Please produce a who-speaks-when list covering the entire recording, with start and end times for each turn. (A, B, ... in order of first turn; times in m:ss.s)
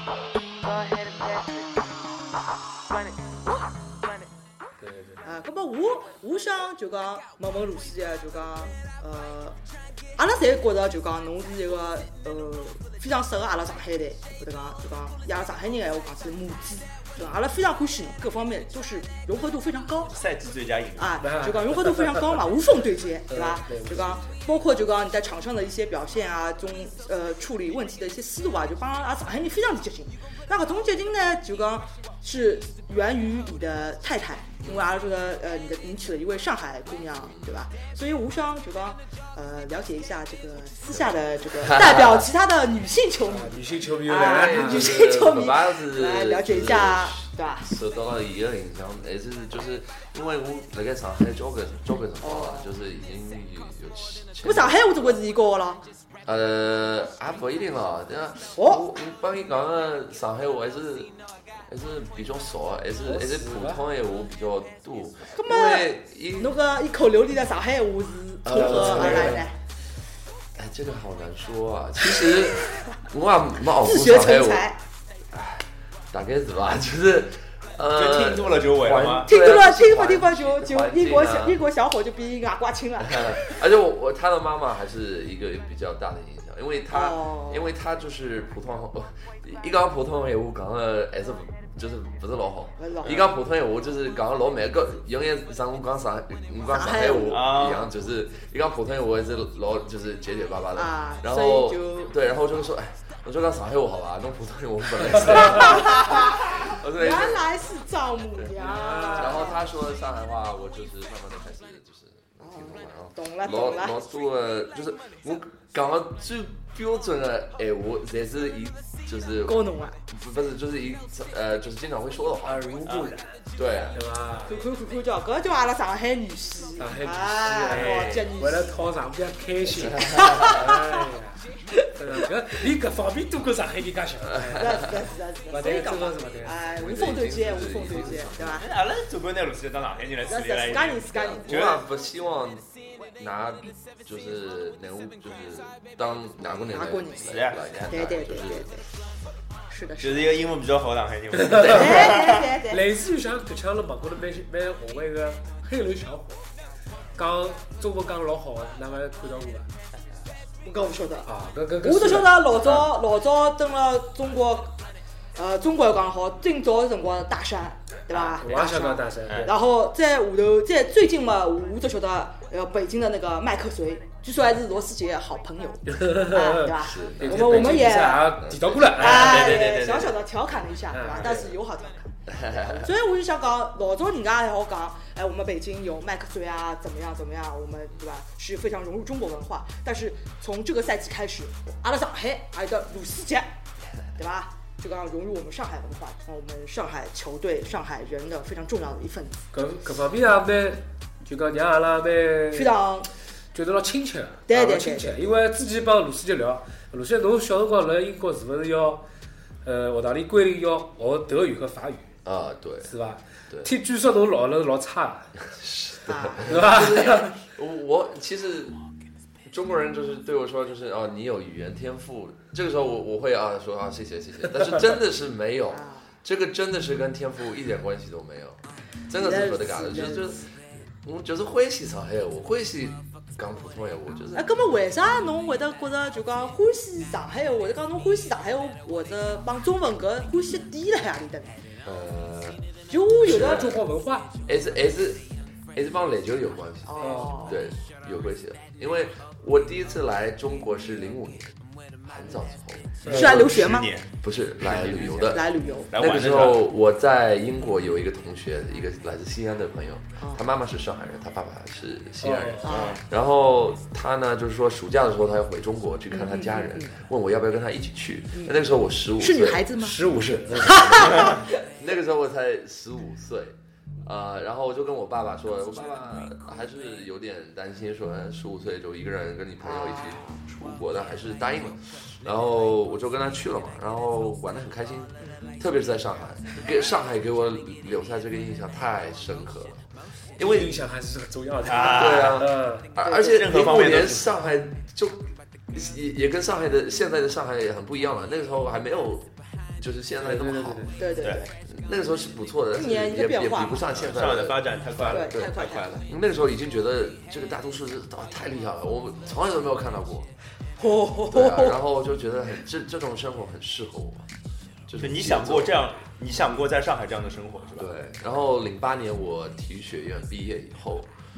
0:00.6-0:01.8 A
0:02.9-0:04.2 A
0:04.8-0:05.2 B
0:05.2-0:09.6 C
0:10.2-0:20.1 C
0:20.1-0:21.2 D
0:21.0-0:47.7 C
0:21.2-0:22.5 B
0:23.3-0:24.4 B
0:34.6-0:34.9 E
0:36.9-0:37.6 E
0:41.5-0:42.3 E
0:43.3-0:45.0 B
0:44.1-0:55.2 E
0:52.2-0:52.7 C
0:54.4-0:55.8 C
0:56.2-1:01.1 E
0:58.6-0:58.9 C
1:01.7-1:06.6 E
1:03.0-1:03.8 B
1:05.3-1:09.5 C
1:08.4-1:09.4 E
1:08.5-1:09.5 B
1:10.6-1:14.7 E
1:13.7-1:14.8 C
1:15.3-1:21.6 E
1:17.9-1:19.3 D
1:19.2-1:23.6 C
1:23.0-1:47.5 E
1:26.9-1:27.7 C
1:32.8-1:33.2 C
1:36.7-1:37.5 C
1:37.3-1:37.9 D
1:40.7-1:42.1 C
1:45.3-1:49.7 C
1:48.6-1:49.6 B
1:49.1-2:02.8 E
1:52.4-1:54.0 C
1:59.4-2:00.0 C
2:02.4-2:03.4 B
2:02.8-2:03.1 D
2:03.5-2:04.0 E
2:03.9-2:04.6 B
2:04.4-2:08.7 C
2:06.8-2:16.6 B
2:07.4-2:08.3 E
2:09.8-2:10.6 E
2:09.8-2:10.8 C
2:14.2-2:15.0 E
2:14.5-2:18.7 C
2:16.7-2:18.7 E
2:18.6-2:21.8 D
2:20.2-2:21.8 C
2:21.0-2:28.8 E
2:26.7-2:28.8 C
2:27.3-2:27.9 D
2:29.7-2:30.4 C
2:30.0-2:32.4 D
2:31.4-2:36.4 B
2:31.6-2:32.9 C
2:37.1-2:39.7 B
2:40.6-2:41.3 C
2:41.2-2:42.9 B
2:41.8-2:44.8 C
2:45.4-3:02.1 C
2:48.4-2:49.5 B
2:49.3-2:49.5 D
2:55.9-2:59.4 B
2:56.8-3:00.1 E
2:59.0-3:00.1 D
3:00.9-3:01.6 B
3:02.3-3:02.9 E
3:02.8-3:13.5 C
3:14.1-3:19.4 C
3:19.5-3:22.7 B
3:22.5-3:23.1 C
3:23.5-3:29.0 B
3:24.5-3:25.2 C
3:29.6-3:32.1 B
3:32.2-3:32.9 E
3:32.8-3:35.3 B
3:35.4-3:38.8 E
3:36.0-3:37.2 C
3:36.5-3:37.3 B
3:39.5-3:50.5 E
3:45.7-3:46.1 C
3:49.1-3:50.4 C
3:51.0-3:54.6 E
3:54.3-4:01.6 C
4:01.8-4:02.6 E
4:02.9-4:03.8 C
4:03.2-4:03.8 E
4:03.2-4:04.3 B
4:04.4-4:13.6 E
4:06.8-4:07.6 C
4:07.0-4:07.3 B
4:13.0-4:13.3 B
4:13.0-4:13.9 C
4:13.1-4:14.1 D
4:14.2-4:49.8 E
4:14.6-4:16.6 D
4:15.3-4:15.9 C
4:22.2-4:22.8 B
4:22.6-4:23.0 C
4:22.7-4:23.0 D
4:26.1-4:26.9 C
4:29.2-4:30.0 C
4:29.8-4:30.9 B
4:30.6-4:31.5 C
4:39.6-4:40.4 C
4:50.4-4:50.8 E
4:50.4-4:52.9 B
4:51.6-4:52.4 D
4:51.8-5:00.9 E
4:53.0-4:53.4 C
4:53.2-4:54.3 D
5:00.2-5:01.0 B
5:00.9-5:01.5 C
5:01.6-5:10.3 E
5:02.7-5:03.9 C
5:03.9-5:06.0 D
5:05.1-5:06.0 C
5:10.8-5:11.8 C
5:11.3-5:14.3 E
5:14.9-5:15.8 E
5:15.0-5:17.9 D
5:17.8-5:21.1 E